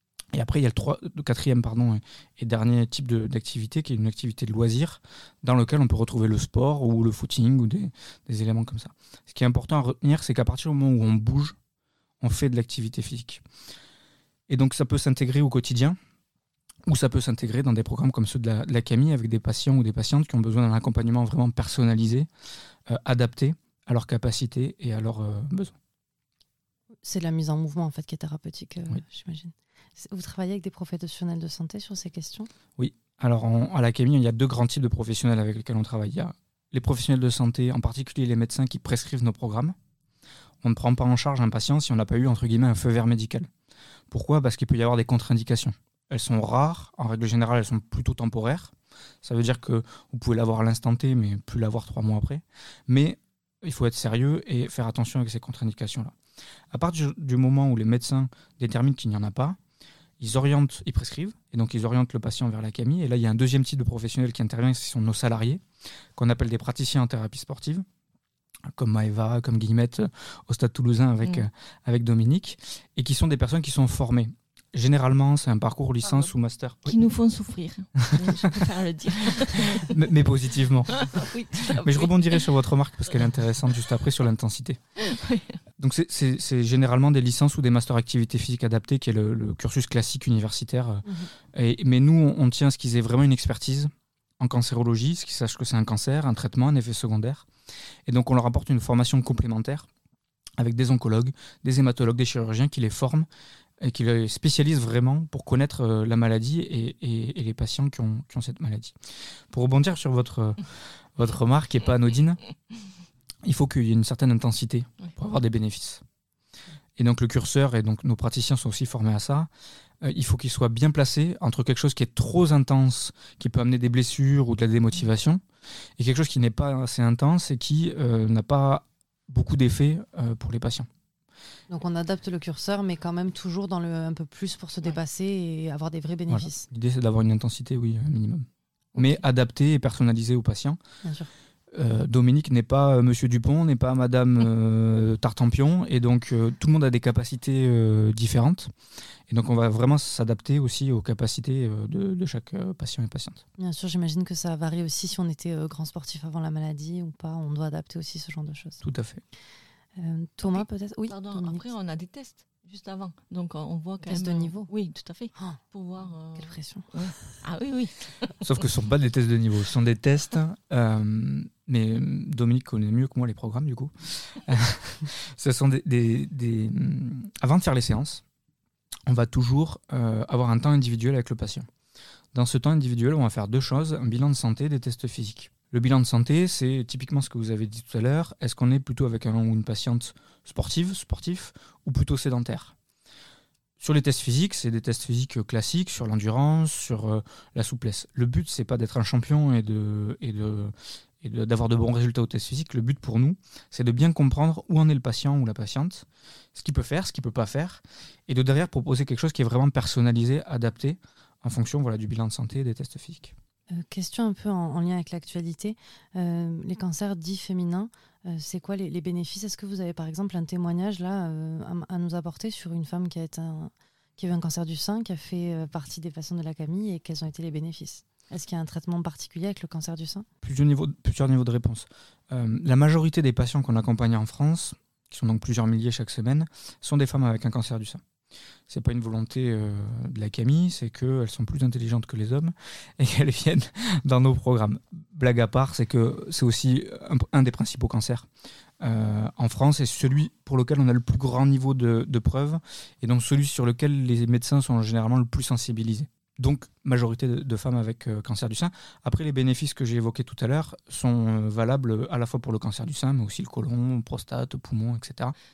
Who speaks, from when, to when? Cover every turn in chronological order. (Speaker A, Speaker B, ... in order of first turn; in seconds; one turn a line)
Speaker A: 0.3-11.6
Speaker A: 12.2-13.4
Speaker A: 14.5-16.0
Speaker A: 16.9-22.3
Speaker A: 22.9-25.8
Speaker B: 27.0-32.5
Speaker A: 32.8-39.8
Speaker A: 40.6-43.5
Speaker A: 44.1-56.1
Speaker A: 56.7-59.6
Speaker A: 60.2-65.6
Speaker A: 66.2-67.8
Speaker A: 68.7-77.0
Speaker C: 76.9-80.0
Speaker A: 78.0-78.5
Speaker A: 79.9-81.1
Speaker C: 80.9-82.5
Speaker A: 81.8-84.8
Speaker C: 85.0-85.6
Speaker A: 85.8-97.5
Speaker A: 98.1-99.9
Speaker A: 100.6-103.3
Speaker A: 103.8-108.9
Speaker A: 109.5-112.4
Speaker A: 113.4-116.0
Speaker A: 117.0-119.5
Speaker A: 120.0-125.4
Speaker A: 126.0-130.9
Speaker B: 131.7-136.7
Speaker A: 136.3-140.8
Speaker B: 141.0-141.3
Speaker A: 141.7-148.7
Speaker A: 149.3-153.4
Speaker B: 153.6-158.8
Speaker A: 158.8-159.2
Speaker B: 160.0-161.7
Speaker C: 160.5-168.5
Speaker B: 164.0-164.7
Speaker B: 166.4-166.9
Speaker A: 168.4-178.2
Speaker A: 179.1-181.7
Speaker A: 182.3-192.8
Speaker A: 193.8-213.3
Speaker B: 213.7-230.3
Speaker A: 230.4-238.0
Speaker A: 238.7-248.3
Speaker A: 248.8-265.4